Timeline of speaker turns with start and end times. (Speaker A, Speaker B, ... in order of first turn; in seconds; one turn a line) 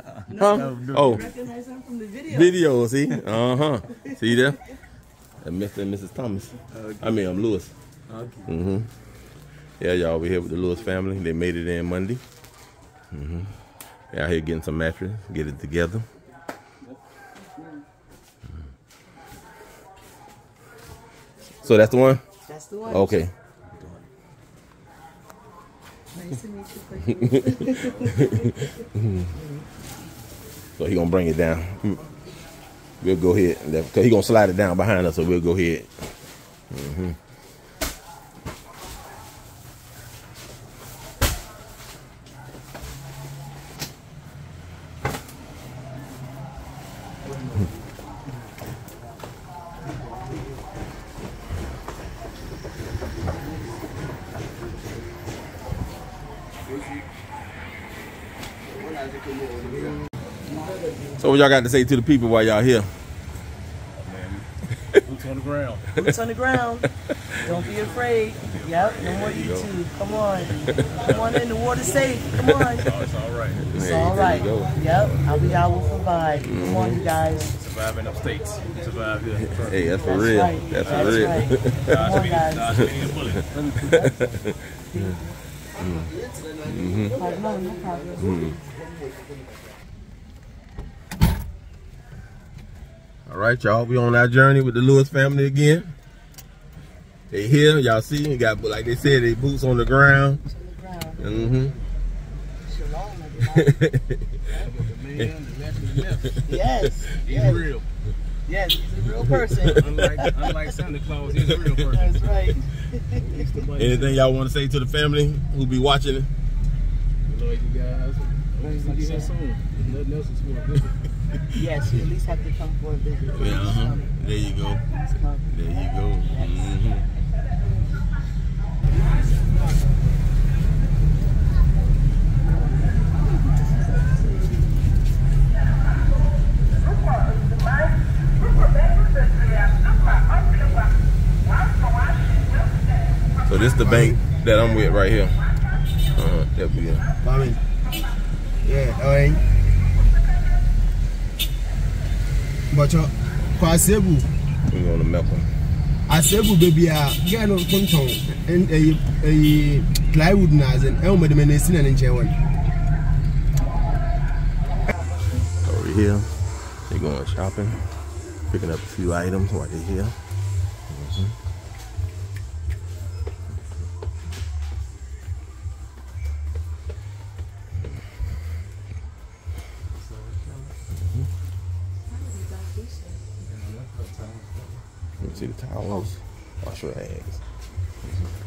Speaker A: 0.3-2.8
Speaker B: 0.3-1.3
Speaker B: 2.3-4.6
Speaker A: 4.0-4.4
Speaker B: 5.4-7.7
Speaker B: 8.4-8.9
Speaker B: 9.8-12.2
Speaker B: 13.1-13.5
Speaker B: 14.1-16.1
Speaker B: 21.6-22.2
Speaker A: 22.5-23.3
Speaker B: 22.9-23.3
Speaker A: 26.1-28.7
Speaker B: 28.0-29.2
Speaker B: 30.8-32.0
Speaker B: 33.0-35.9
Speaker B: 36.7-37.1
Speaker C: 58.7-60.0
Speaker B: 61.2-62.9
Speaker D: 64.0-64.5
Speaker D: 65.0-65.9
Speaker A: 65.9-72.9
Speaker D: 67.3-69.5
Speaker B: 68.9-69.7
Speaker B: 70.6-71.1
Speaker D: 70.7-71.4
Speaker D: 72.8-73.7
Speaker B: 73.7-75.2
Speaker A: 73.7-77.5
Speaker B: 76.4-77.0
Speaker D: 77.5-79.9
Speaker B: 79.5-82.1
Speaker A: 80.0-82.9
Speaker D: 80.8-84.4
Speaker B: 82.7-83.2
Speaker B: 83.8-84.4
Speaker A: 83.9-85.4
Speaker B: 85.8-86.1
Speaker C: 86.1-89.7
Speaker B: 86.7-87.2
Speaker A: 87.1-88.4
Speaker B: 88.2-88.6
Speaker B: 93.3-95.9
Speaker B: 97.3-100.4
Speaker A: 100.5-101.5
Speaker B: 101.2-101.7
Speaker A: 102.6-103.9
Speaker B: 103.7-104.4
Speaker D: 104.5-106.4
Speaker A: 106.4-107.7
Speaker D: 107.2-107.9
Speaker A: 108.5-110.7
Speaker B: 109.5-110.1
Speaker D: 109.7-112.3
Speaker A: 111.9-113.3
Speaker D: 113.1-114.2
Speaker B: 113.7-116.3
Speaker D: 117.2-121.0
Speaker A: 118.7-119.3
Speaker A: 121.5-124.1
Speaker B: 123.3-124.9
Speaker A: 124.9-126.8
Speaker B: 125.5-127.1
Speaker B: 143.4-145.4
Speaker C: 143.8-144.2
Speaker B: 146.2-147.1
Speaker C: 147.2-147.6
Speaker C: 148.6-149.4
Speaker C: 152.7-154.3
Speaker B: 154.7-155.5
Speaker C: 156.1-162.4
Speaker B: 165.6-166.3
Speaker B: 166.9-167.8
Speaker B: 168.5-170.2
Speaker B: 170.9-171.3
Speaker D: 180.1-180.6
Speaker A: 182.1-183.2
Speaker D: 183.4-184.7
Speaker B: 185.2-187.4